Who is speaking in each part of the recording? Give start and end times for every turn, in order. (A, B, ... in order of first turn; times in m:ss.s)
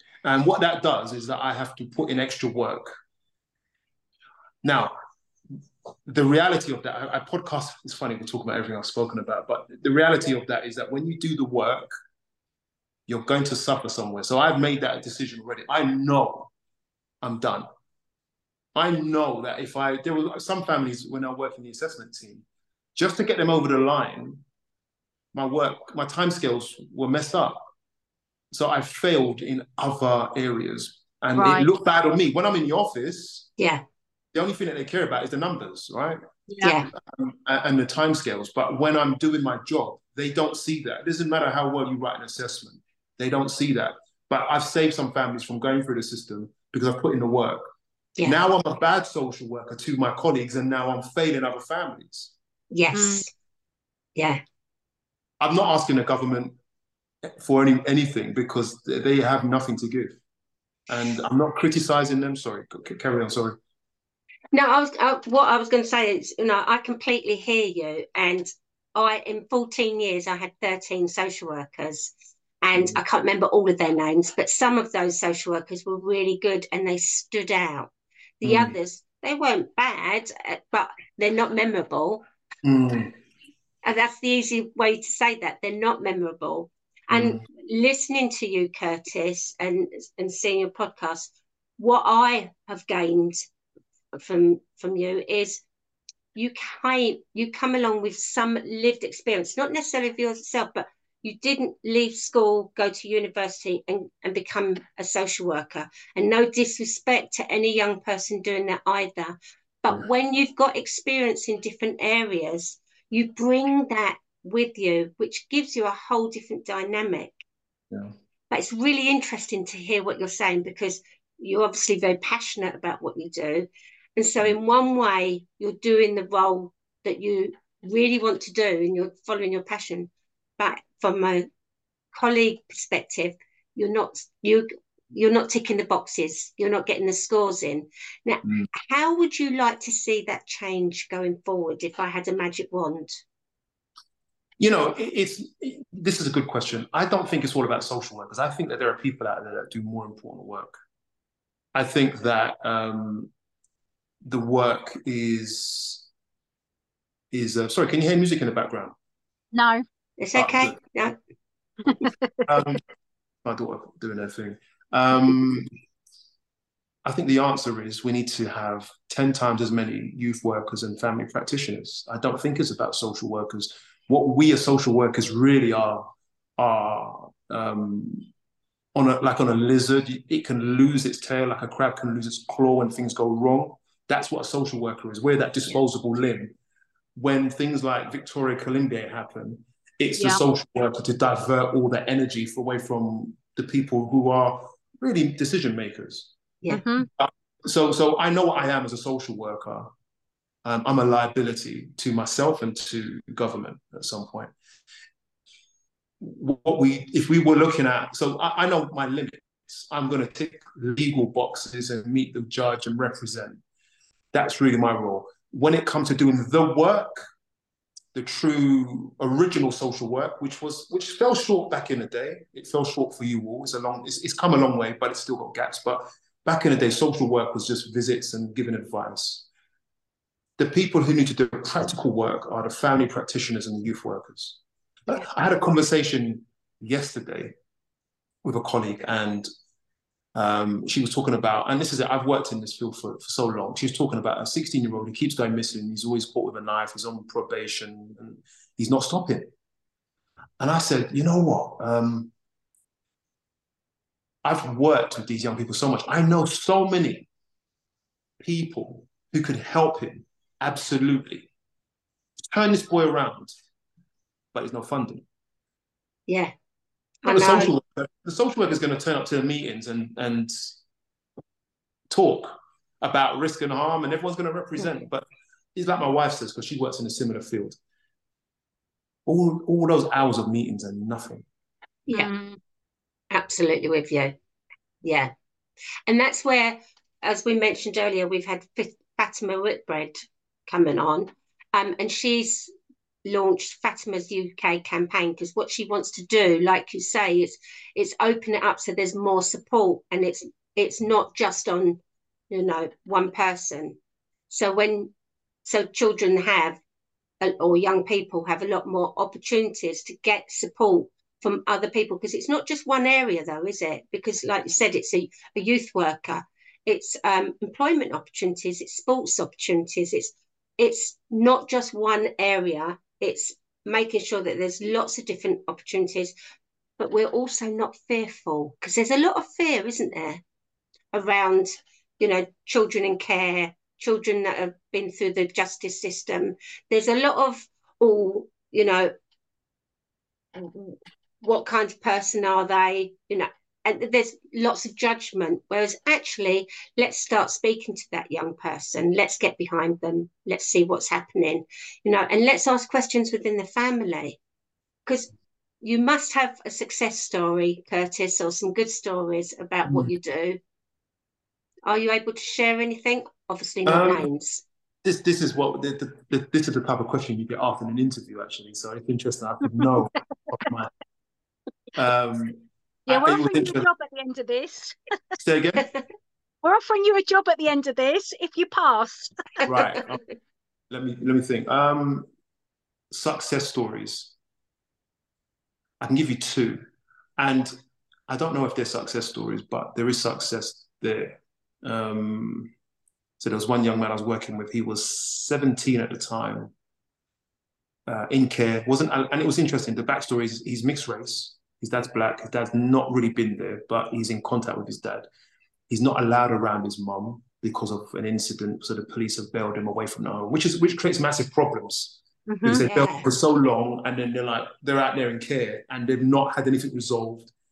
0:00.2-0:02.9 A
0:04.6-0:04.9 A
0:06.1-0:11.9 A
0:13.1-0:16.5 A
0:17.2-0:17.7 A
0:18.8-0:22.4 A
0:23.0-0:24.4 A
0:25.3-0:27.6 A
0:28.5-0:33.5 A
0:31.4-0:31.7 B
0:34.3-0:36.2 A
0:36.5-0:36.8 B
0:36.6-0:36.9 C
0:37.0-0:47.6 A
0:48.2-0:52.3 A
0:52.7-0:53.3 C
0:52.9-0:53.3 B
0:54.2-0:54.4 C
0:55.4-0:56.6 A
0:57.2-1:00.2 A
1:00.9-1:03.6 A
1:04.5-1:22.2 C
1:12.7-1:13.0 A
1:18.4-1:18.8 A
1:22.6-1:23.1 A
1:23.8-1:33.5 C
1:27.1-1:27.4 A
1:34.1-1:35.6 C
1:36.4-1:57.4 C
1:58.5-2:11.5 C
2:12.1-2:23.2 C
2:24.6-2:30.8 A
2:31.8-2:33.3 A
2:34.2-2:36.1 A
2:37.3-2:38.9 A
2:39.5-2:39.8 B
2:40.2-2:41.2 C
2:40.4-2:40.8 A
2:42.5-2:42.8 A
2:43.4-2:45.7 A
2:47.0-2:58.3 A
2:59.0-3:06.5 A
3:07.2-3:16.3 A
3:16.7-3:17.1 B
3:17.2-3:19.9 A
3:20.6-3:24.5 A
3:26.2-3:33.6 A
3:34.3-3:37.2 A
3:38.1-3:49.5 A
3:50.6-3:57.5 A
3:58.4-3:59.5 A
4:00.4-4:09.5 A
4:10.6-4:12.3 A
4:14.4-4:17.3 A
4:18.4-4:21.5 A
4:22.5-4:23.5 A
4:24.5-4:25.2 A
4:27.2-4:27.7 C
4:27.2-4:30.8 A
4:32.1-4:37.8 A
4:39.2-4:41.4 A
4:42.1-4:42.3 C
4:42.1-4:42.6 B
4:43.3-4:44.4 C
4:45.0-4:45.3 C
4:46.1-4:52.7 C
4:53.2-5:04.0 C
5:04.5-5:05.1 C
5:05.6-5:06.8 C
5:07.4-5:26.3 C
5:27.0-5:30.4 C
5:31.1-5:39.1 C
5:40.5-5:54.4 C
5:55.0-5:55.3 C
5:55.8-6:00.6 C
5:59.9-6:00.1 A
6:01.8-6:04.6 C
6:03.9-6:04.3 A
6:05.0-6:10.9 A
6:12.0-6:13.9 A
6:13.1-6:15.0 B
6:15.4-6:15.9 A
6:16.6-6:19.6 B
6:19.6-6:20.2 A
6:20.9-6:22.3 A
6:23.1-6:24.3 A
6:26.0-6:26.8 A
6:27.4-6:27.7 A
6:28.3-6:32.7 A
6:33.4-6:36.7 A
6:38.1-6:45.2 A
6:45.9-6:57.5 A
6:52.5-6:52.8 B
6:52.8-6:53.2 C